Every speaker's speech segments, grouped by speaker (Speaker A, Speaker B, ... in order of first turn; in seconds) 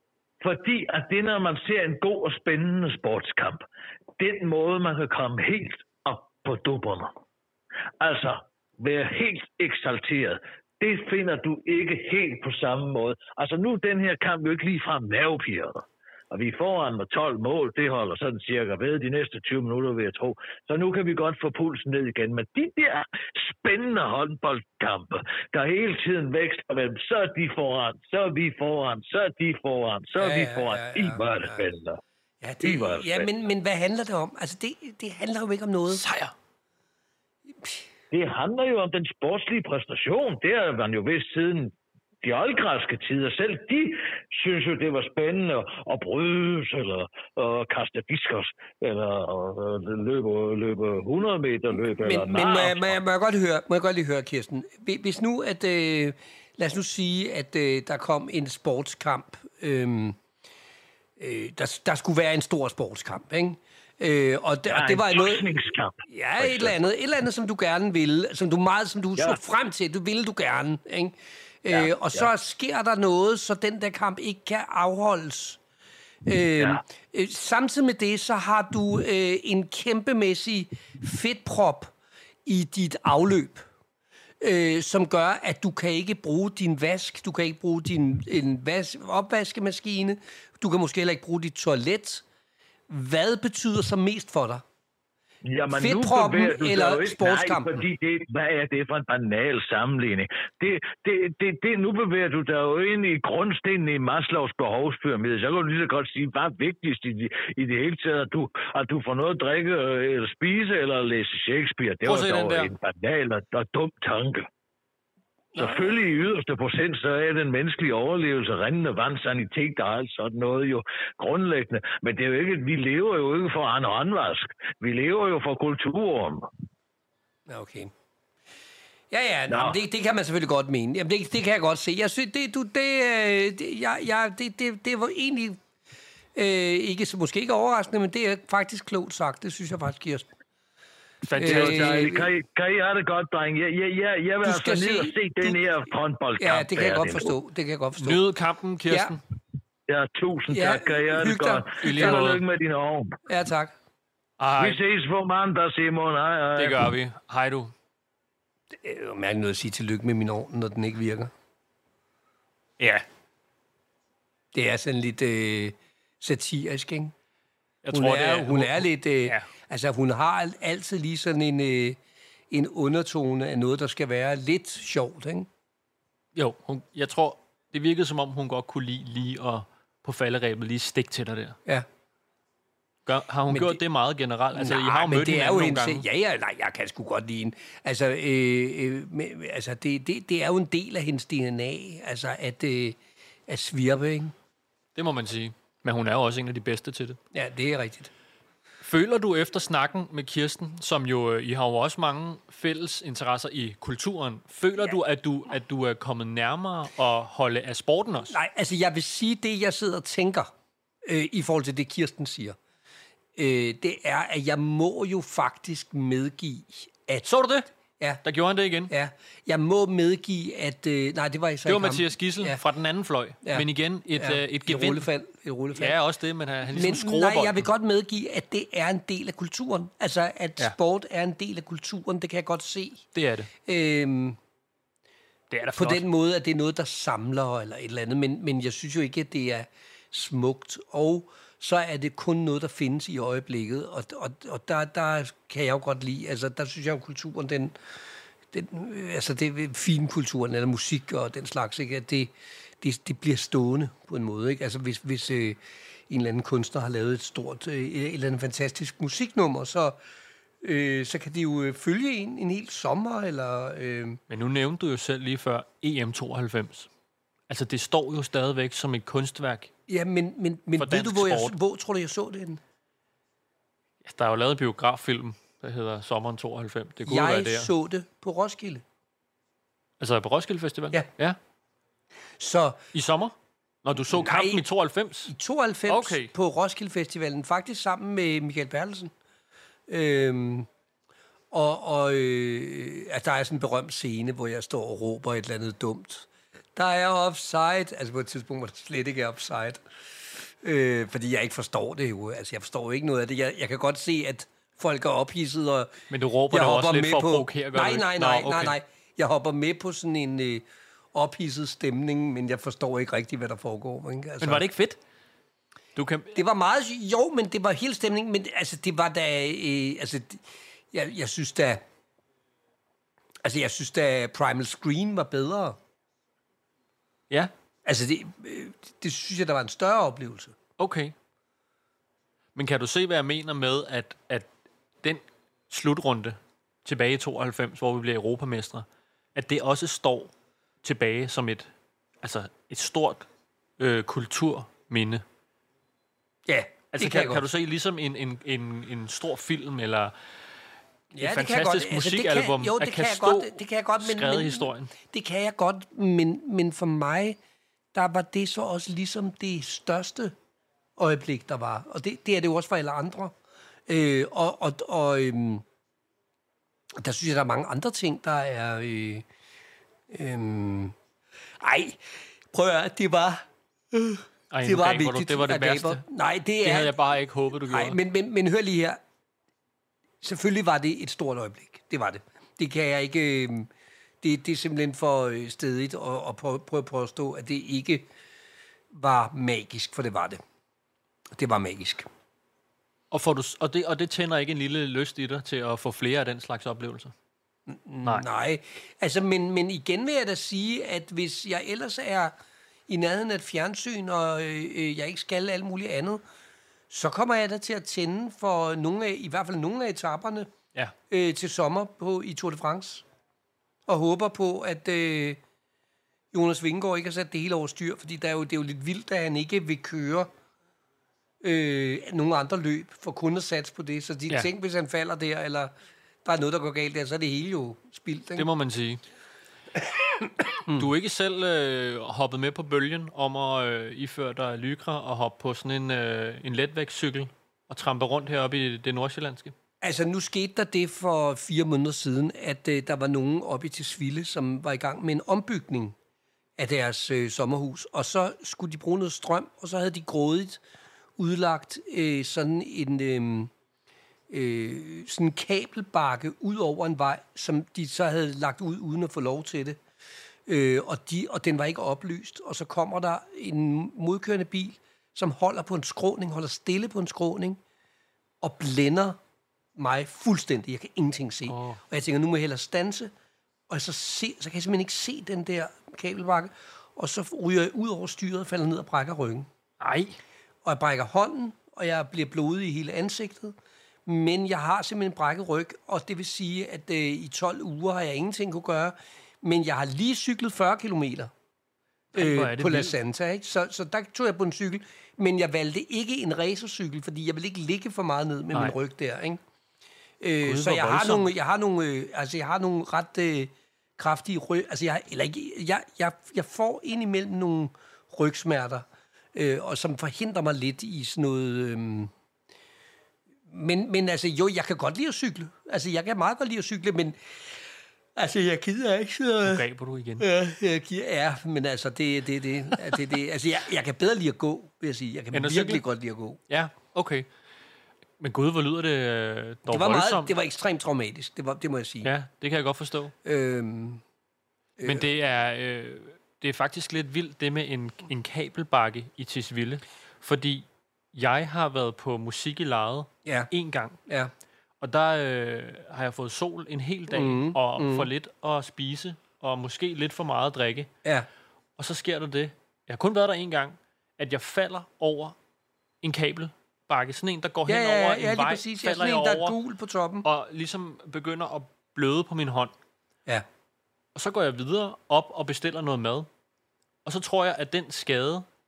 Speaker A: 0.4-3.6, 4.2-7.1, 8.0-32.0, 32.6-33.3, 38.1-53.0, 64.7-66.8, 71.7-72.3, 95.5-114.5, 115.6-126.5, 129.5-129.8, 141.4-147.3, 149.9-153.2, 154.6-156.9
Speaker B: 30.2-31.6, 32.4-36.0, 52.0-60.2, 61.2-65.5, 66.1-75.6, 76.3-81.9, 82.5-83.7, 84.4-92.2, 92.9-94.6, 95.7-97.8, 127.5-127.9, 129.1-135.6, 136.3-140.3, 141.4-142.3, 144.4-145.6, 146.4-148.2, 148.9-149.2, 150.5-152.3, 153.3-153.7, 158.7-161.3, 164.5-167.1, 167.9-172.0, 172.5-175.5, 183.5-183.8, 184.6-194.3, 197.3-198.1, 208.3-210.5, 211.1-212.6, 213.4-217.3, 218.9-222.6, 223.4-226.0, 226.7-233.1, 233.6-234.4, 235.7-247.7, 248.5-260.0, 260.6-264.2, 269.9-272.6, 277.1-278.8, 282.4-282.8, 284.1-284.6, 285.3-289.1, 289.9-290.7, 291.5-299.8, 300.4-306.0, 306.5-314.6, 316.3-321.8, 323.4-325.8, 327.9-330.6, 346.5-347.4, 351.1-357.4, 357.9-360.4, 361.0-363.4, 363.9-365.6, 367.0-369.3, 370.1-370.9, 371.6-372.0, 372.5-376.9, 377.7-379.0, 380.2-383.7, 384.2-388.1, 388.9-390.4, 391.3-392.1, 397.7-402.3, 402.9-406.2, 406.9-410.5, 411.1-413.1, 413.9-415.4, 416.3-420.3, 421.4-425.7, 426.2-428.5, 430.1-430.9, 439.8-446.0, 446.6-450.6, 451.2-453.5, 454.3-459.8, 460.5-467.6, 468.4-469.2, 469.8-473.1, 473.7-479.5, 480.6-483.6, 484.1-491.3, 492.1-499.4, 500.2-512.1, 513.5-517.6, 518.2-519.6, 520.2-526.4, 529.7-532.1, 533.2-534.0, 534.8-535.1, 543.2-543.5, 547.1-548.1, 557.7-560.3
Speaker C: 35.9-36.3, 112.0-112.7, 141.2-142.1, 148.0-149.2, 151.8-152.4, 154.4-154.8, 156.6-157.7, 162.8-163.1, 167.8-169.5, 176.3-181.6, 183.1-186.1, 194.9-197.2, 198.8-208.4, 217.2-217.7, 218.2-218.9, 221.7-225.1, 225.7-227.7, 233.1-233.5, 235.5-236.1, 264.3-266.9, 267.5-269.7, 270.8-271.6, 274.0-277.7, 280.0-281.4, 282.9-285.3, 285.9-286.3, 306.1-308.8, 314.4-315.0, 316.0-316.4, 330.8-331.1, 332.6-334.5, 335.0-341.7, 342.2-343.3, 343.8-345.2, 346.9-350.1, 351.1-354.9, 374.5-376.0, 376.6-378.0, 393.1-397.1, 428.4-429.0, 430.7-439.5, 471.5-471.8, 479.8-480.2, 492.1-493.0, 500.4-501.3, 519.4-520.3, 525.3-525.8, 526.5-527.3, 528.2-530.3, 532.0-533.1, 534.8-544.0, 544.8-550.9, 551.8-555.4, 556.0-559.6, 560.2-562.7, 564.1-566.3, 567.0-568.5